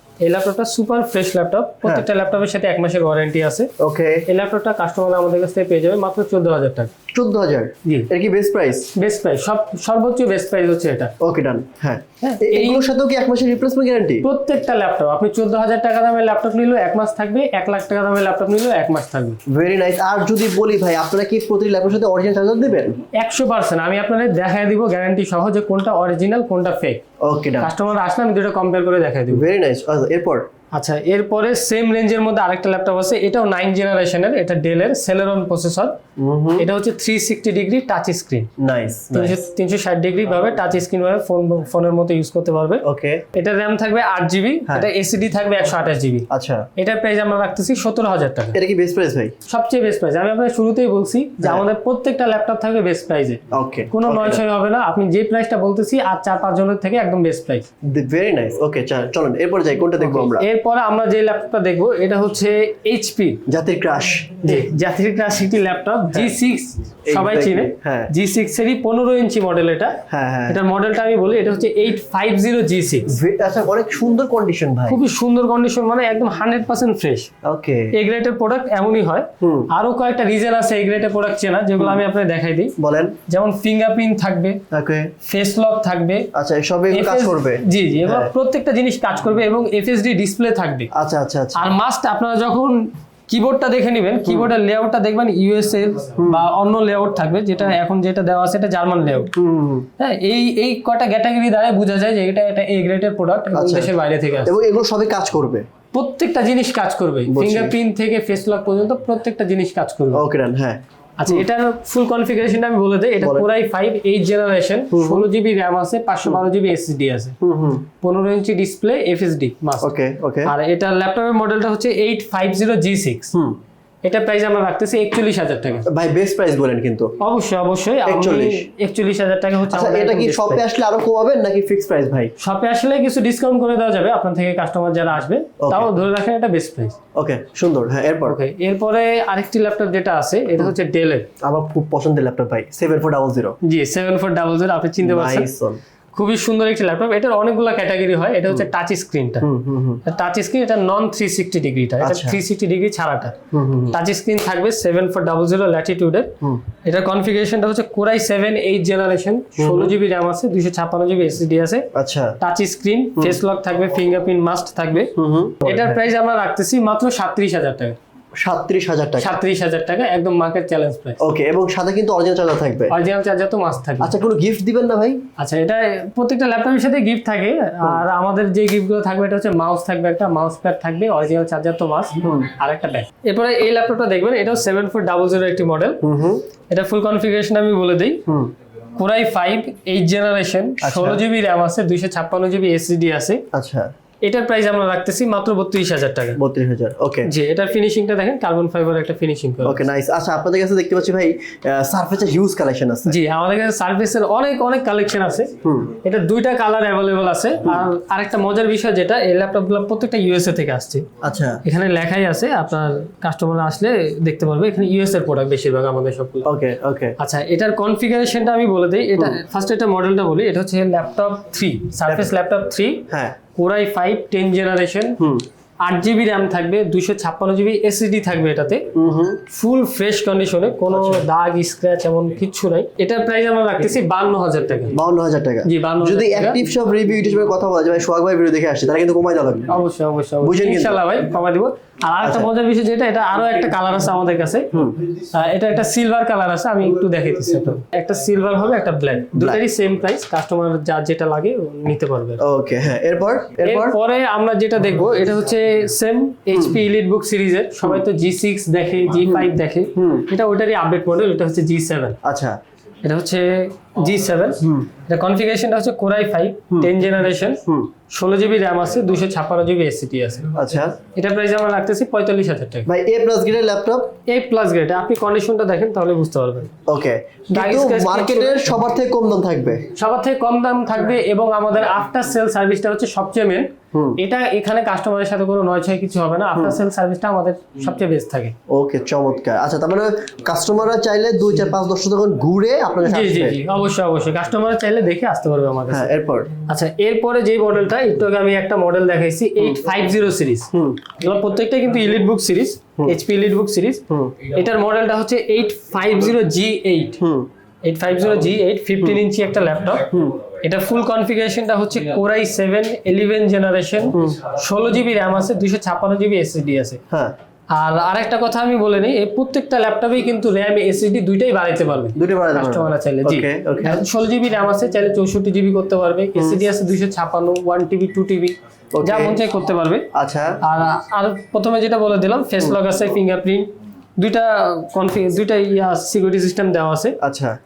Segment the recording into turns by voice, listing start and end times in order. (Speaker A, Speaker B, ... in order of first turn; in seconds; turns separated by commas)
Speaker A: 0.2-3.7, Speaker B: 3.8-4.2, Speaker A: 4.3-6.9, Speaker B: 7.1-8.9, Speaker A: 7.8-8.1, Speaker A: 8.9-11.1, Speaker B: 11.2-14.3, Speaker A: 12.2-12.9, Speaker A: 14.2-19.4, Speaker B: 19.5-23.0, Speaker A: 23.1-27.0, Speaker B: 27.2-27.7, Speaker A: 27.6-29.4, Speaker B: 29.3-30.5, Speaker A: 30.7-36.0, Speaker B: 36.2-36.7, Speaker A: 36.6-38.5, Speaker B: 38.6-39.4, Speaker A: 39.1-48.6, Speaker B: 42.8-43.2, Speaker B: 46.3-46.7, Speaker B: 48.5-49.3, Speaker A: 49.5-57.7, Speaker B: 53.5-54.4, Speaker B: 57.8-60.5, Speaker A: 60.0-63.4, Speaker B: 63.5-64.3, Speaker A: 64.4-73.1, Speaker B: 67.1-68.1, Speaker B: 70.1-70.6, Speaker B: 73.1-75.0, Speaker A: 74.9-77.3, Speaker B: 77.4-77.9, Speaker A: 77.9-82.8, Speaker B: 79.4-79.7, Speaker B: 82.8-83.2, Speaker A: 83.3-84.6, Speaker B: 84.7-85.1, Speaker A: 85.2-86.3, Speaker B: 86.3-88.3, Speaker A: 86.9-90.9, Speaker B: 90.9-91.6, Speaker A: 91.6-99.3, Speaker B: 99.3-99.9, Speaker A: 100.0-104.5, Speaker B: 103.5-103.9, Speaker B: 104.4-105.7, Speaker A: 105.9-110.2, Speaker B: 107.3-107.7, Speaker B: 110.1-111.4, Speaker A: 111.2-117.4, Speaker B: 113.2-113.5, Speaker B: 114.9-115.2, Speaker B: 117.4-117.9, Speaker A: 118.0-119.9, Speaker B: 119.8-120.5, Speaker A: 120.5-123.3, Speaker B: 123.3-123.6, Speaker A: 124.0-125.9, Speaker B: 125.9-127.2, Speaker A: 127.2-130.6, Speaker B: 128.1-128.7, Speaker B: 129.7-132.3, Speaker A: 132.4-137.0, Speaker B: 135.6-135.9, Speaker B: 137.2-138.4, Speaker A: 138.2-141.3, Speaker B: 141.4-143.6, Speaker A: 143.6-145.5, Speaker B: 145.0-145.8, Speaker A: 146.1-149.5, Speaker B: 149.4-150.0, Speaker A: 150.1-153.4, Speaker B: 152.0-152.4, Speaker B: 153.5-154.0, Speaker A: 153.9-161.9, Speaker B: 159.6-159.9, Speaker B: 161.9-162.4, Speaker A: 162.4-168.0, Speaker B: 165.2-166.0, Speaker B: 168.4-169.4, Speaker A: 169.2-171.2, Speaker B: 171.2-172.9, Speaker A: 172.9-174.1, Speaker B: 174.0-175.2, Speaker A: 175.4-186.0, Speaker B: 182.2-182.5, Speaker B: 186.0-186.4, Speaker A: 186.7-188.2, Speaker B: 188.3-188.5, Speaker A: 189.0-193.4, Speaker B: 190.8-191.2, Speaker B: 193.5-193.9, Speaker A: 194.2-196.4, Speaker B: 196.4-197.3, Speaker A: 197.3-199.8, Speaker B: 199.6-203.2, Speaker A: 203.1-211.1, Speaker B: 205.6-205.9, Speaker B: 211.2-211.6, Speaker A: 211.6-216.5, Speaker B: 216.4-217.2, Speaker A: 217.2-225.2, Speaker B: 222.1-222.3, Speaker B: 223.1-223.4, Speaker B: 225.2-225.4, Speaker A: 225.8-228.9, Speaker B: 228.9-229.4, Speaker A: 229.5-235.0, Speaker B: 234.9-239.8, Speaker A: 235.6-236.6, Speaker A: 239.7-244.7, Speaker B: 240.4-241.0, Speaker B: 242.2-242.5, Speaker B: 244.7-245.0, Speaker A: 245.3-252.4, Speaker B: 249.3-249.6, Speaker B: 252.4-254.0, Speaker A: 253.6-262.2, Speaker B: 259.9-260.3, Speaker B: 262.2-262.6, Speaker A: 263.0-270.5, Speaker B: 264.6-264.9, Speaker B: 267.7-267.9, Speaker B: 270.5-271.0, Speaker A: 271.1-272.9, Speaker B: 272.9-274.1, Speaker A: 274.3-276.7, Speaker B: 276.9-279.9, Speaker A: 277.5-278.8, Speaker A: 279.9-288.6, Speaker B: 283.9-284.2, Speaker B: 288.7-293.6, Speaker A: 293.1-296.1, Speaker B: 295.9-296.5, Speaker A: 296.7-307.2, Speaker B: 300.7-301.0, Speaker B: 304.1-304.4, Speaker B: 307.2-307.5, Speaker A: 307.8-310.1, Speaker B: 310.1-310.4, Speaker A: 310.6-317.0, Speaker B: 314.1-314.4, Speaker B: 317.1-317.4, Speaker A: 317.7-330.1, Speaker B: 322.1-324.0, Speaker B: 328.9-329.4, Speaker B: 330.1-330.6, Speaker A: 330.6-337.2, Speaker B: 337.2-337.6